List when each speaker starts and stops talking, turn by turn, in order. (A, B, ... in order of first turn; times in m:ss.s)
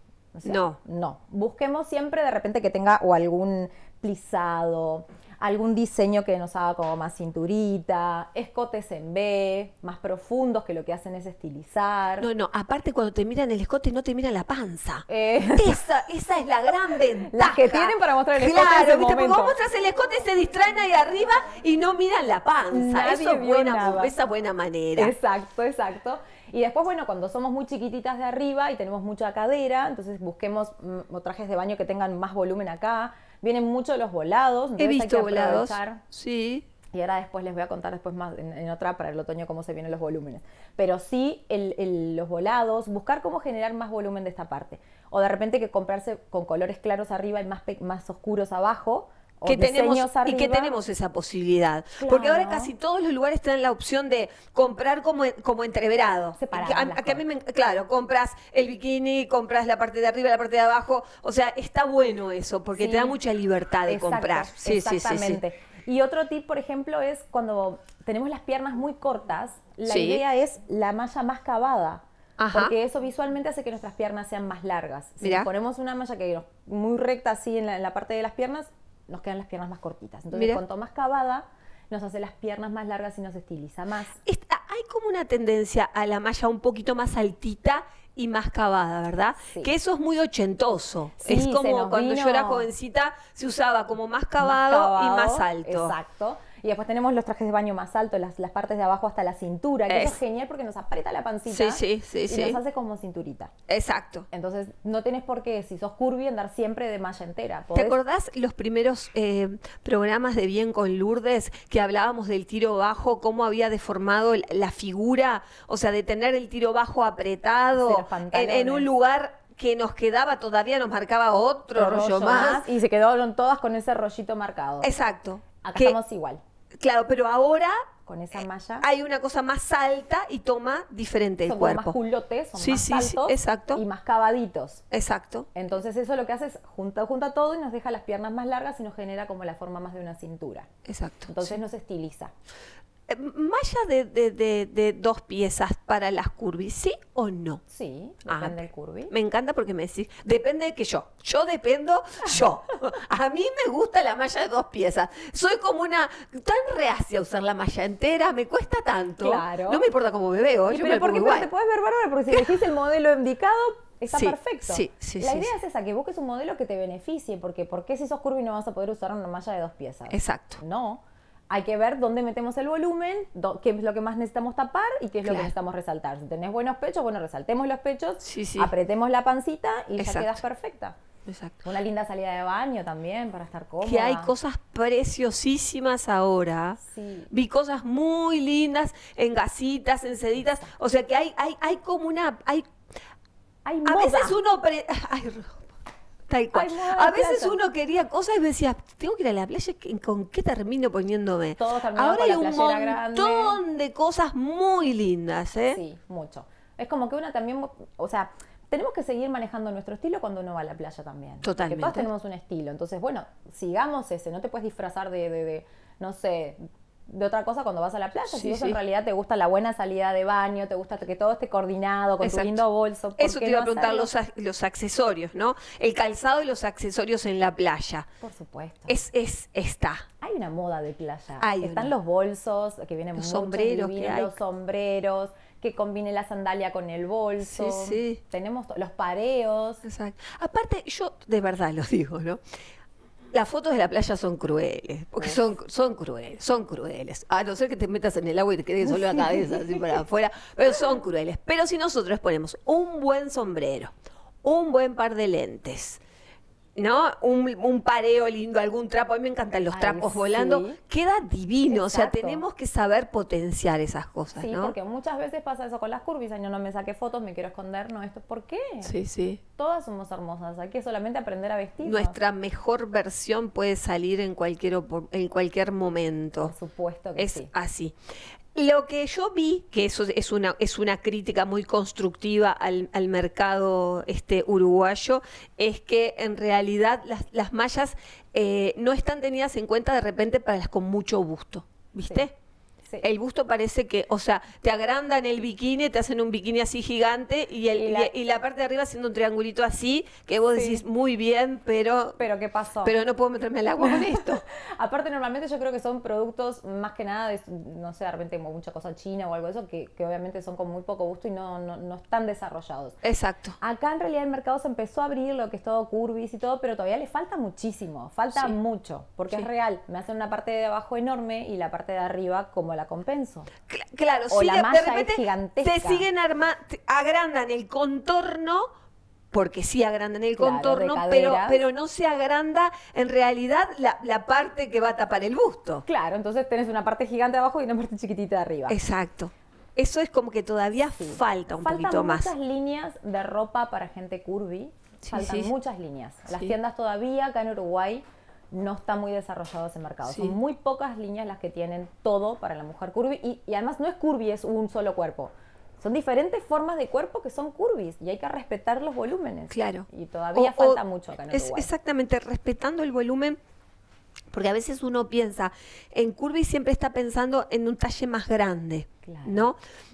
0:00.3-0:12.3 A
0:00.4-0:00.8 B
0:12.2-0:25.1 B
0:15.1-0:15.8 A
0:17.2-0:19.6 A
0:22.7-0:24.1 A
0:25.0-0:36.0 A
0:34.8-0:36.6 B
0:36.9-0:50.7 A
0:49.4-1:05.4 B
0:52.0-0:52.7 A
0:56.4-0:57.2 A
1:02.7-1:03.2 A
1:03.8-1:24.2 A
1:09.8-1:10.2 B
1:12.4-1:12.7 B
1:15.2-1:15.5 B
1:20.3-1:20.6 B
1:24.2-1:35.9 B
1:29.4-1:29.7 A
1:31.2-1:32.7 A
1:34.4-1:43.5 A
1:39.9-1:40.2 B
1:41.5-1:42.6 B
1:43.7-1:44.3 B
1:44.3-1:48.0 A
1:47.7-2:02.7 B
1:57.7-1:58.9 A
2:01.7-2:04.9 A
2:04.8-2:06.0 B
2:05.6-2:06.4 A
2:06.8-2:07.7 B
2:08.0-2:08.8 A
2:08.8-2:11.9 B
2:11.4-2:14.8 A
2:12.6-2:13.8 B
2:14.9-2:15.5 B
2:15.5-2:20.7 A
2:20.8-2:21.5 B
2:21.3-2:22.3 A
2:23.1-2:27.6 B
2:27.7-2:29.1 A
2:28.3-2:41.5 B
2:39.2-2:39.8 A
2:40.7-3:01.0 A
2:44.1-2:45.5 B
2:50.1-2:50.6 B
2:55.2-2:55.5 B
2:58.2-2:58.7 B
3:00.0-3:00.4 B
3:01.2-3:01.6 B
3:01.6-3:04.3 A
3:03.8-3:06.8 B
3:06.8-3:07.3 A
3:07.3-3:12.6 B
3:10.4-3:10.7 A
3:13.6-3:14.4 A
3:13.8-3:15.7 B
3:16.3-3:25.8 B
3:16.5-3:17.6 A
3:21.6-3:23.6 A
3:25.7-3:44.1 A
3:31.4-3:32.1 B
3:38.2-3:38.8 B
3:42.2-3:42.6 B
3:43.2-3:48.1 B
3:48.2-3:49.0 A
3:48.9-3:50.0 B
3:50.2-3:59.8 A
3:51.4-3:51.9 B
3:53.2-3:54.3 B
3:57.4-3:58.2 B
3:59.8-4:02.4 B
4:03.3-4:13.9 B
4:14.4-4:16.0 B
4:16.8-4:24.7 B
4:19.7-4:20.8 A
4:21.7-4:22.4 A
4:24.3-4:28.9 A
4:28.8-4:29.4 B
4:29.6-4:32.2 A
4:31.8-4:36.5 B
4:36.4-4:37.5 A
4:37.2-4:37.9 B
4:38.5-4:52.3 B
4:53.0-5:02.2 B
4:57.8-4:58.1 A
5:00.5-5:00.8 A
5:02.2-5:03.0 A
5:02.8-5:04.4 B
5:03.8-5:13.0 A
5:13.0-5:13.6 B
5:13.6-5:23.5 A
5:23.7-5:28.7 B
5:24.3-5:26.0 A
5:29.3-5:35.8 B
5:30.4-5:31.6 A
5:35.8-5:38.8 A
5:38.7-5:42.3 B
5:41.0-6:01.7 A
5:45.0-5:45.5 B
5:50.0-5:50.3 B
5:59.5-6:03.4 B
6:04.3-6:09.6 B
6:09.0-6:09.5 A